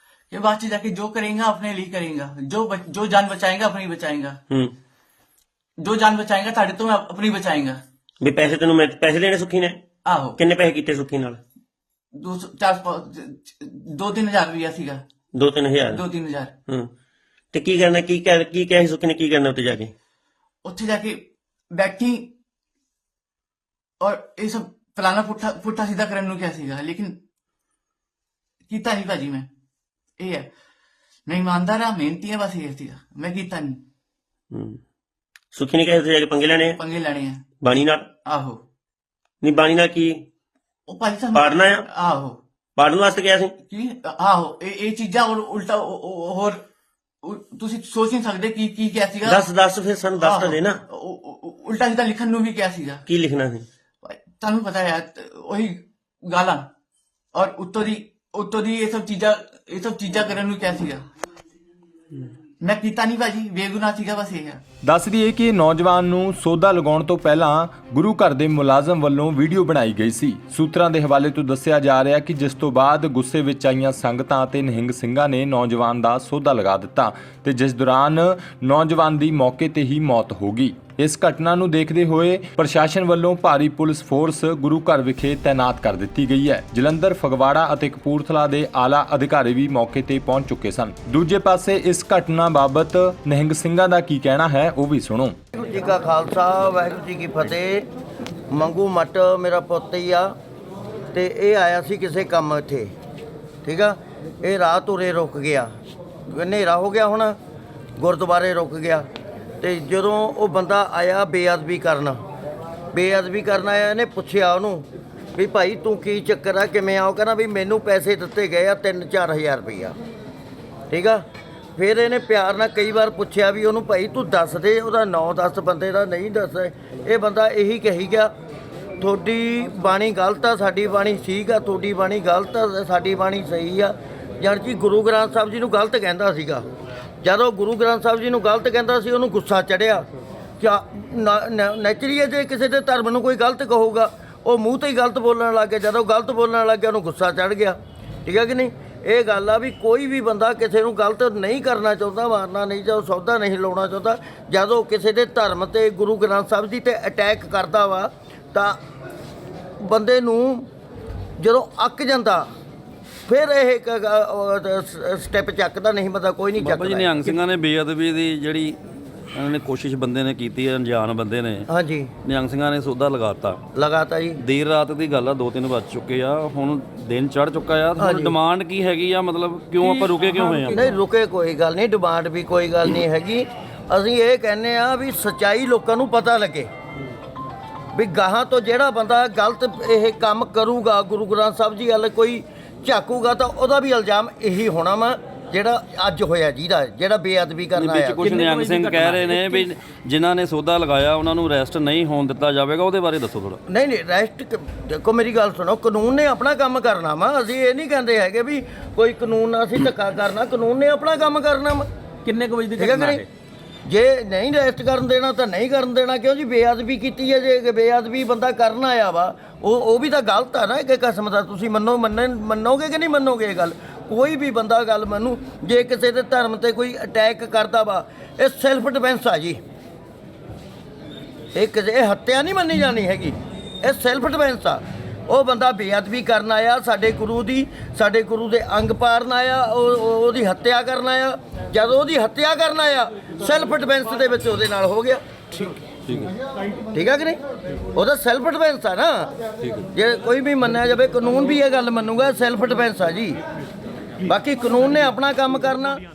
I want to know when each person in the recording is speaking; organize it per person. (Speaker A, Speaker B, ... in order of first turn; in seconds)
Speaker A: 0.3-4.4, 5.8-7.8, 10.0-10.4, 12.1-15.0, 15.8-16.5, 20.6-22.3, 24.0-27.2, 28.7-29.5, 30.2-30.5, 31.3-33.8, 36.5-37.5, 38.2-38.6, 40.9-42.4, 43.7-46.6, 47.2-49.5, 50.2-53.0, 54.0-56.7, 57.3-61.0, 62.6-64.6
Speaker B: 8.2-9.8, 10.4-11.4, 15.3-16.0, 17.5-19.9, 34.5-34.8, 35.5-36.8, 37.6-38.1, 39.4-40.2, 41.3-41.9, 42.8-43.5, 49.2-50.8, 53.1-53.7
Speaker C: 64.8-95.4
Speaker D: 95.5-97.8, 98.5-100.3, 101.1-102.9, 103.6-105.7, 106.3-107.4, 108.0-109.0, 109.6-112.2, 112.9-114.8, 115.3-119.9, 120.9-121.2, 121.8-128.3, 129.0-136.6, 137.2-140.1, 140.6-158.8, 159.8-160.7, 161.4-162.5, 163.3-167.3, 171.7-172.1, 173.7-174.4, 178.0-178.3, 180.3-186.7, 187.9-198.3, 203.7-211.8, 212.8-213.2, 213.8-229.6, 231.5-245.2, 246.9-247.4, 247.9-249.3, 249.9-253.4, 254.2-256.0
Speaker E: 166.6-168.8, 169.3-171.7, 172.2-173.6, 174.3-180.9, 197.8-203.6
Speaker F: 198.2-199.7, 212.2-213.2